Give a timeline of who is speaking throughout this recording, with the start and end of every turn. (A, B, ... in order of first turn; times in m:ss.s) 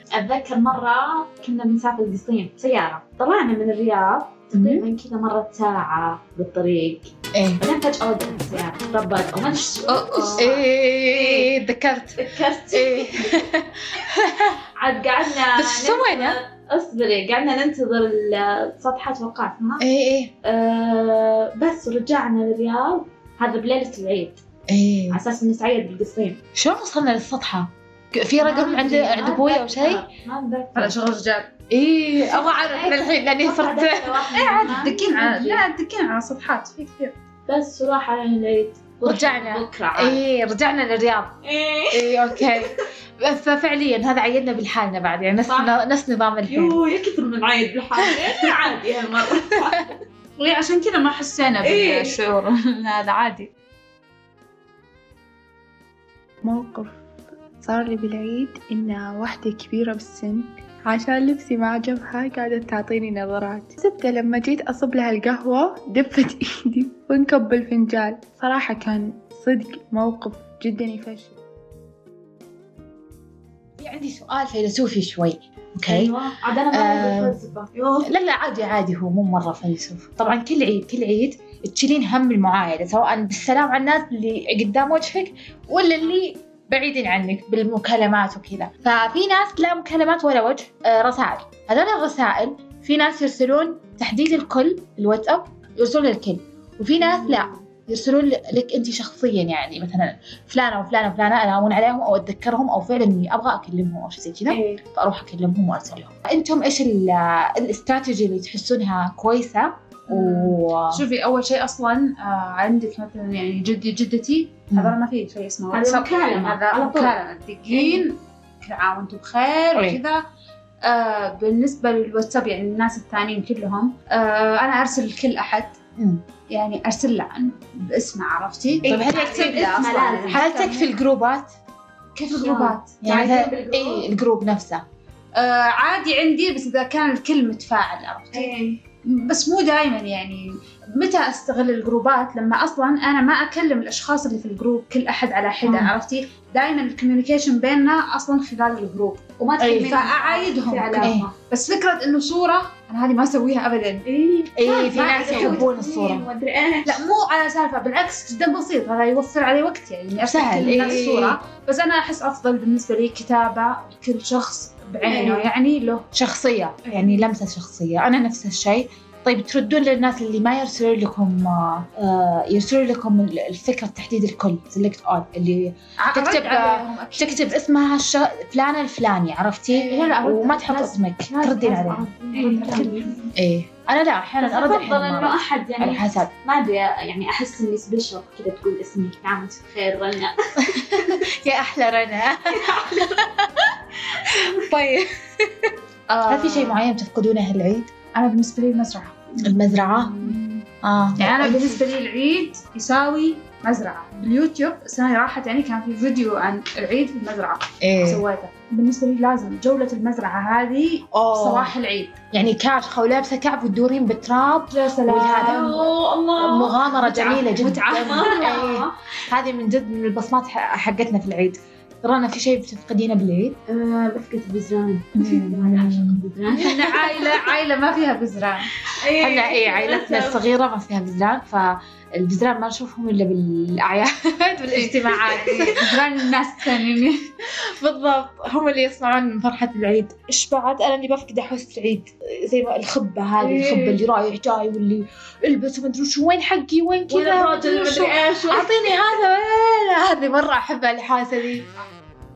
0:00.1-0:11.5 A
0:04.5-0:04.8 B
0:07.3-0:07.6 B
0:09.9-0:10.4 C
0:10.4-0:14.6 B
0:12.2-0:13.4 A
0:14.8-0:19.8 A
0:15.5-0:16.4 B
0:19.8-0:20.3 B
0:20.4-0:24.4 A
0:24.7-0:25.2 B
0:25.1-0:26.4 A
0:26.5-0:30.0 B
0:28.4-0:31.0 A
0:30.7-0:31.5 C
0:31.7-0:34.4 B
0:32.2-0:35.6 A
0:34.3-0:37.1 C
0:37.5-0:40.2 A
0:39.0-0:41.4 B
0:41.4-0:42.8 A
0:41.9-0:46.8 B
0:45.5-0:45.8 A
0:46.5-0:49.9 A
0:50.4-0:53.5 C
0:51.6-0:52.2 A
0:56.4-0:57.0 D
0:57.6-1:11.4 D
1:13.8-1:16.1 B
1:15.8-1:18.1 A
1:16.7-1:17.4 B
1:18.0-1:51.0 B
1:37.0-1:37.6 A
1:44.5-1:44.8 A
1:50.1-2:00.2 C
1:55.7-1:57.1 A
1:57.7-1:58.0 A
1:59.7-2:00.0 B
2:00.8-2:05.8 C
2:06.0-2:06.2 B
2:06.5-2:10.8 C
2:08.8-2:09.7 B
2:08.8-2:10.4 A
2:10.3-2:11.5 B
2:12.2-2:13.0 C
2:12.3-2:14.1 A
2:13.0-2:14.8 B
2:15.4-2:34.0 C
2:18.3-2:18.8 A
2:29.4-2:31.3 A
2:29.6-2:30.0 B
2:31.0-2:31.3 B
2:34.0-2:37.0 A
2:34.6-2:36.2 B
2:34.9-2:35.7 C
2:36.8-2:46.0 C
2:40.2-2:41.4 B
2:45.0-2:45.5 A
2:46.1-3:02.1 B
2:56.0-2:57.5 C
2:59.7-3:03.2 C
3:02.3-3:03.1 A
3:03.3-3:06.3 B
3:04.4-3:11.2 A
3:10.7-3:13.7 B
3:12.5-3:13.2 A
3:14.4-3:15.7 B
3:16.1-3:16.8 C
3:16.3-3:17.9 B
3:18.1-3:20.6 C
3:19.4-3:20.2 B
3:20.8-3:21.8 B
3:21.2-3:32.2 C
3:27.8-3:28.2 B
3:31.1-3:31.7 B
3:32.3-3:43.6 B
3:34.7-3:35.8 C
3:35.4-3:37.4 A
3:37.1-3:38.6 C
3:38.0-3:38.9 A
3:43.7-3:47.2 A
3:45.2-3:47.0 B
3:46.4-3:48.7 C
3:49.0-3:50.4 A
3:49.1-3:56.0 B
3:54.7-3:57.3 C
3:57.6-4:11.6 B
4:03.4-4:04.0 A
4:07.1-4:08.8 A